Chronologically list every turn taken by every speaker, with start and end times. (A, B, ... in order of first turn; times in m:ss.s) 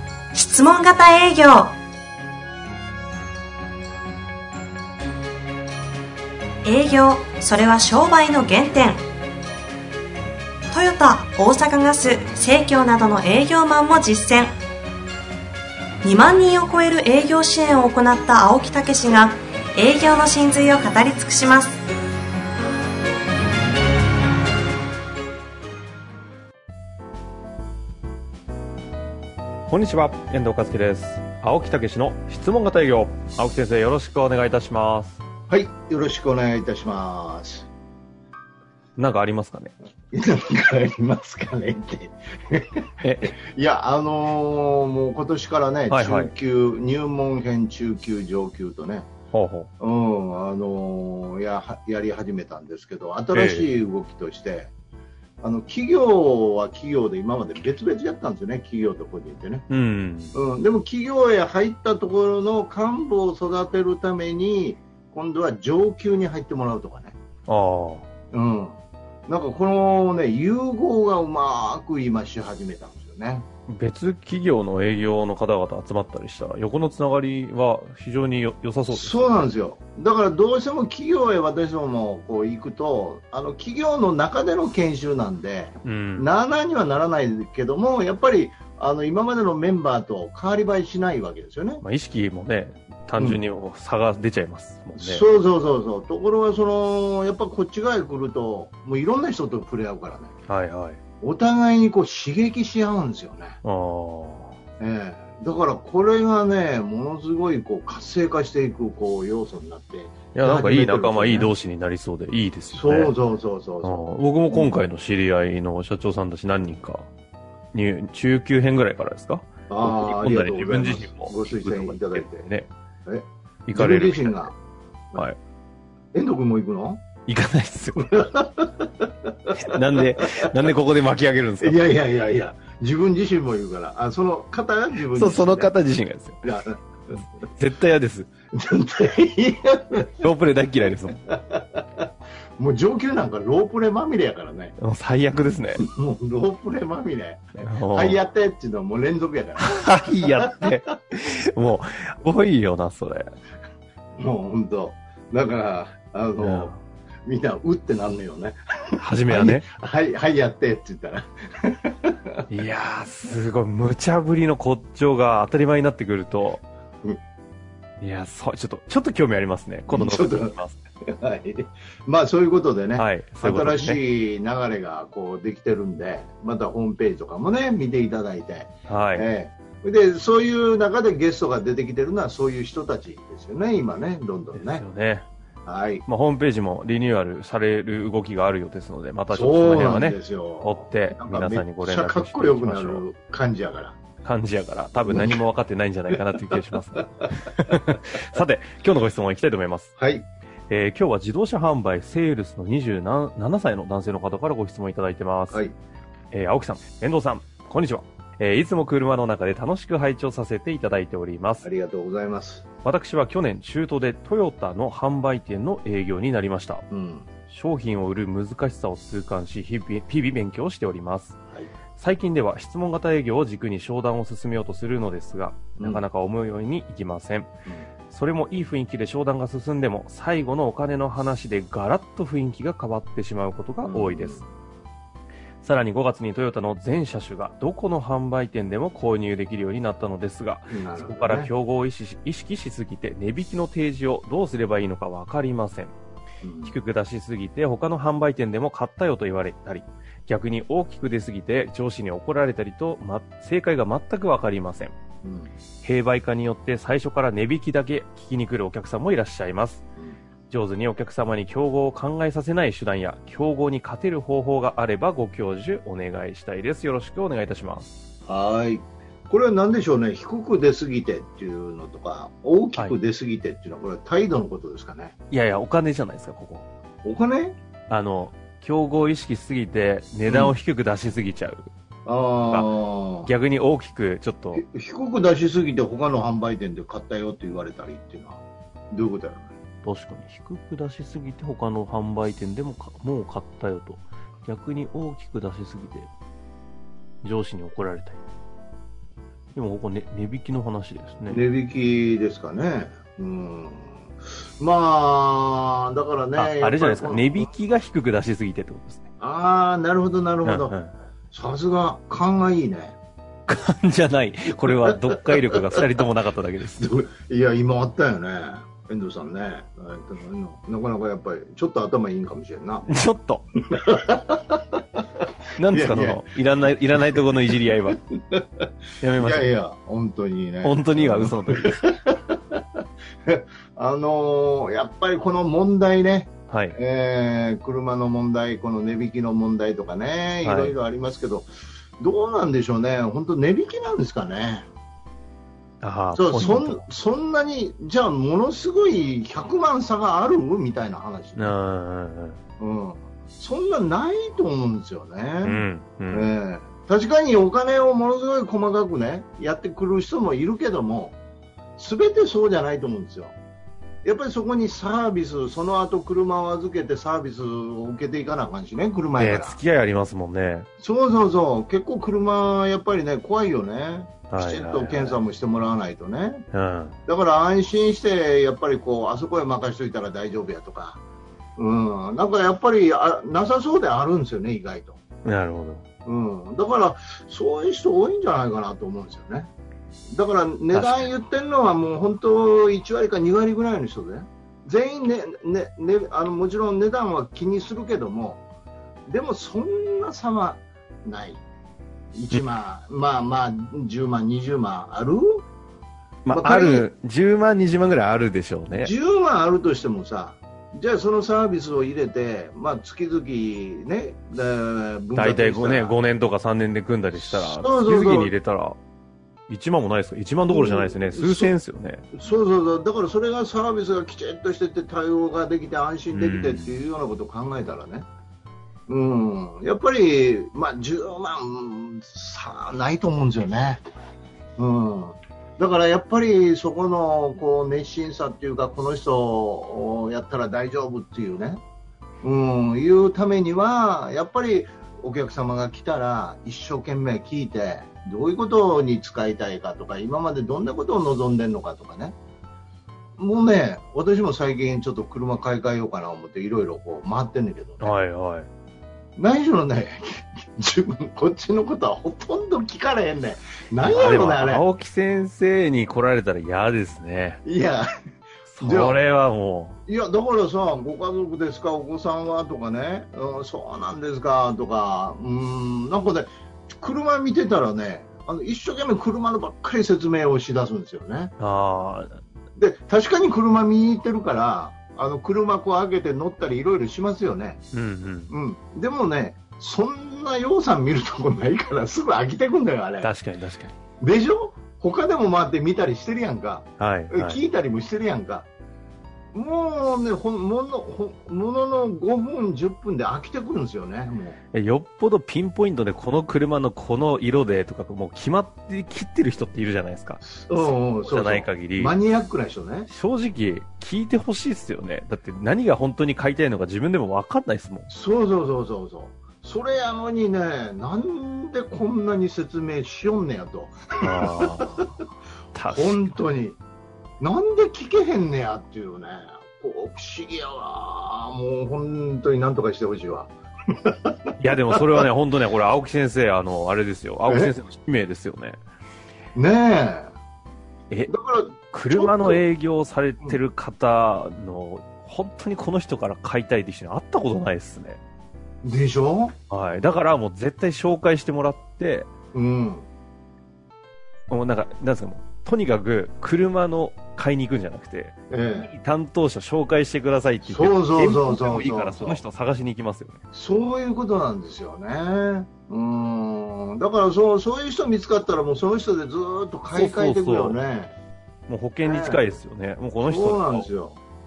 0:00.3-0:01.8 A
0:06.6-0:09.0 A
0:10.7-0:14.6 A
0:16.0-0:21.8 A
0:29.7-0:35.2 B
0:35.5-0:37.7 C
0:39.0-0:39.7 B
0:40.1-0:49.1 C
0:43.0-0:43.4 B
0:45.9-0:46.3 B
0:49.3-0:49.7 B
0:49.8-0:54.7 C
0:53.3-0:53.7 B
0:55.4-0:59.6 C
0:59.7-1:00.4 B
1:00.3-1:07.2 C
1:07.5-1:08.1 B
1:08.3-1:13.5 C
1:13.7-1:19.5 B
1:18.9-1:31.8 C
1:25.8-1:26.3 B
1:31.8-1:35.5 B
1:35.0-1:40.3 C
1:40.5-1:41.0 B
1:41.2-1:43.6 C
1:43.6-1:44.6 B
1:44.8-1:51.5 C
1:50.3-1:53.2 B
1:52.7-1:54.8 C
1:53.8-1:57.1 B
1:57.7-2:02.7 B
1:59.7-2:02.5 C
2:03.1-2:04.5 C
2:03.7-2:04.6 B
2:06.1-2:07.0 C
2:07.3-2:08.3 B
2:08.0-2:10.5 C
2:09.5-2:11.9 B
2:11.6-2:15.8 C
2:15.0-2:16.5 B
2:16.4-2:16.8 C
2:17.4-2:18.3 B
2:18.5-2:20.4 C
2:20.2-2:21.2 B
2:21.0-2:24.8 C
2:24.8-2:25.9 B
2:25.8-2:30.8 C
2:27.6-2:28.2 B
2:29.6-2:33.3 B
2:34.2-2:36.7 C
2:36.4-2:36.8 B
2:37.3-2:42.4 C
2:39.0-2:39.7 B
2:42.5-2:46.6 B
2:48.0-2:50.8 B
2:49.9-3:04.9 C
2:53.0-2:54.0 B
2:58.9-2:59.3 B
3:04.5-3:05.3 B
3:05.7-3:06.0 C
3:06.1-3:13.1 B
3:09.3-3:14.0 C
3:14.2-3:19.9 B
3:15.1-3:15.4 C
3:16.1-3:17.3 C
3:20.0-3:20.3 C
3:20.7-3:25.7 B
3:26.3-3:31.7 B
3:31.6-3:32.7 C
3:32.8-3:36.8 B
3:36.9-3:37.3 C
3:37.4-3:41.4 B
3:42.0-3:47.5 B
3:45.8-3:46.0 C
3:48.1-3:54.4 B
3:53.8-3:54.5 C
3:55.6-4:05.9 B
4:00.7-4:01.5 C
4:06.4-4:06.8 C
4:06.6-4:15.0 B
4:15.2-4:15.5 C
4:15.8-4:19.8 B
4:20.5-4:28.0 B
4:28.3-4:35.1 C
4:35.3-4:36.7 B
4:37.0-4:37.6 C
4:37.9-4:41.7 B
4:40.3-4:40.6 C
4:42.1-4:43.3 C
4:43.2-4:44.6 B
4:44.5-4:48.4 C
4:48.9-4:49.5 C
4:49.8-4:56.1 B
4:57.2-4:58.2 B
4:59.5-5:01.5 B
5:01.3-5:07.5 C
5:06.4-5:09.0 B
5:09.2-5:10.8 C
5:10.4-5:10.9 B
5:11.3-5:13.0 C
5:13.5-5:16.9 B
5:14.7-5:15.8 C
5:16.8-5:22.9 C
5:22.8-5:23.4 B
5:23.7-5:26.2 C
5:25.6-5:28.0 B
5:27.7-5:41.5 C
5:29.0-5:29.5 B
5:30.6-5:31.9 B
5:36.5-5:36.8 B
5:40.4-5:40.8 B
5:42.0-5:44.7 C
5:45.8-5:46.8 B
5:46.1-5:51.6 C
5:51.4-5:52.4 B
5:52.6-6:01.2 C
5:55.4-5:56.3 B
6:01.8-6:03.3 C
6:04.0-6:09.6 C
6:09.2-6:10.7 B
6:10.8-6:16.4 C
6:14.3-6:15.2 B
6:16.5-6:17.0 B
6:17.1-6:21.0 C
6:21.6-6:25.0 C
6:25.2-6:25.8 B
6:26.0-6:29.5 C
6:30.1-6:38.4 C
6:30.7-6:31.2 B
6:39.1-6:41.4 C
6:42.2-6:45.4 C
6:46.2-6:48.9 B
6:46.3-6:46.9 C
6:48.7-6:56.0 C
6:55.2-6:58.8 B
6:57.1-6:58.3 C
6:59.5-7:02.1 B
7:00.5-7:01.6 C
7:02.2-7:08.1 C
7:06.1-7:06.8 B
7:08.9-7:13.8 C
7:14.6-7:21.6 C
7:22.2-7:32.2 C
7:33.2-7:38.0 C
7:37.8-7:38.5 B
7:39.2-7:44.7 C
7:43.8-7:47.4 B
7:47.5-7:47.8 C
7:48.5-7:49.8 B
7:48.6-7:49.0 C
7:49.9-8:01.3 C
8:01.4-8:02.2 B
8:02.6-8:07.6 C
8:07.7-8:08.3 B
8:08.3-8:13.2 C
8:13.0-8:13.8 B
8:14.0-8:18.5 C
8:16.8-8:17.4 B
8:19.3-8:24.4 C
8:24.5-8:32.0 B
8:30.3-8:32.9 C
8:32.9-8:37.9 B
8:37.9-8:44.8 C
8:44.0-8:45.0 B
8:45.5-8:46.2 B
8:45.7-8:46.6 C
8:47.2-8:53.3 C
8:53.8-8:55.0 C
8:54.4-8:58.6 B
8:57.3-8:57.6 C
8:59.4-9:00.1 C
9:00.9-9:08.0 B
9:01.1-9:02.4 C
9:08.6-9:09.3 C
9:09.5-9:12.1 B
9:12.3-9:12.9 C
9:14.3-9:23.2 B
9:18.3-9:18.7 C
9:20.4-9:22.2 C
9:23.3-9:30.9 C
9:29.7-9:30.6 B
9:31.5-9:33.7 B
9:31.8-9:32.3 C
9:33.0-9:34.0 C